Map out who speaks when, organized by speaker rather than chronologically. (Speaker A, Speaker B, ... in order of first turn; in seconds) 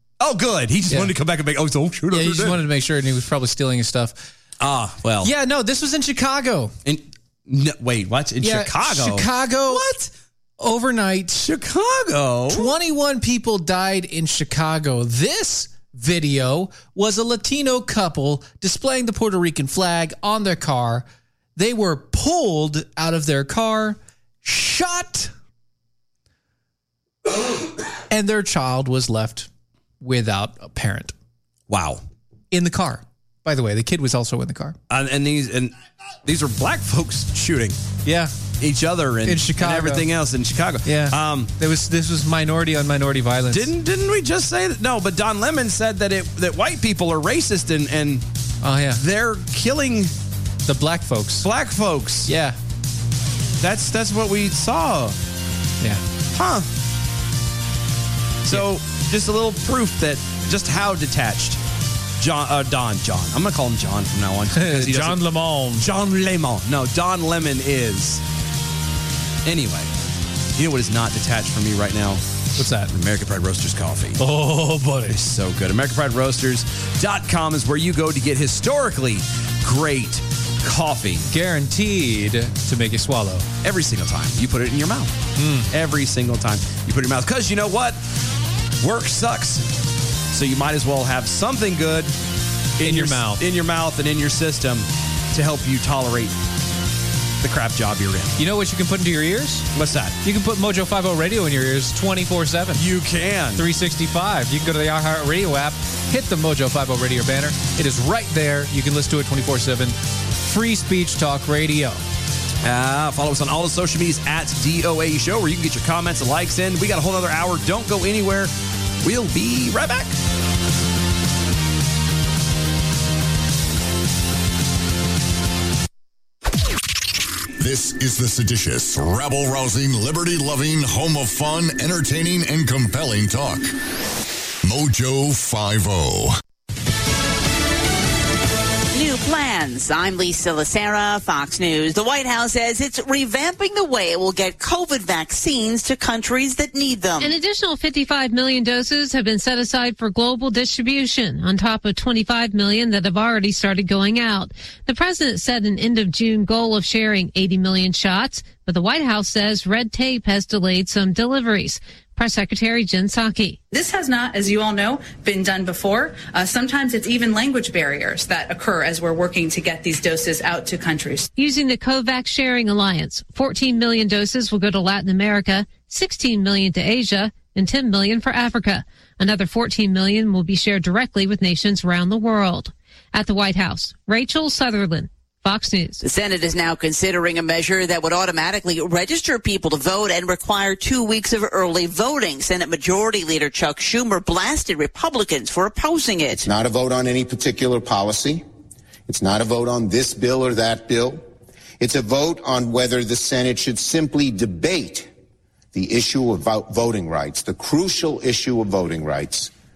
Speaker A: 0.2-2.6, 4.6-5.3, 6.8-10.1, 11.3-12.7, 31.7-32.0, 34.9-37.8, 38.6-41.5, 43.5-48.2, 48.9-50.1, 51.4-52.3, 53.6-55.2, 56.3-56.7, 58.4-61.6, 62.2-68.2, 69.5-69.9, 70.5-72.2, 72.9-74.2, 75.1-81.3, 83.6-85.2, 85.7-88.0, 88.8-89.7, 90.3-92.2, 92.8-96.4, 97.4-98.4, 99.7-100.2, 102.8-103.7, 112.6-120.2
Speaker B: 2.1-4.3, 5.2-6.8, 8.4-9.9, 10.6-11.4, 12.5-25.3, 28.1-29.5, 30.0-31.1, 32.5-34.8, 38.1-38.3, 39.2-40.1, 40.9-43.7, 48.6-49.0, 50.7-51.5, 52.3-52.6, 64.5-65.9, 72.6-72.9, 74.2-75.2, 81.3-83.5, 85.4-85.7, 92.8-93.4, 98.4-99.7, 100.2-102.8, 103.6-112.0
Speaker C: 127.6-133.7, 134.6-136.4
Speaker D: 138.9-147.3, 186.0-196.5
Speaker E: 147.2-163.6, 171.4-186.0
Speaker F: 163.7-171.3
Speaker G: 196.4-198.4, 199.1-201.2, 201.8-205.1, 205.7-209.5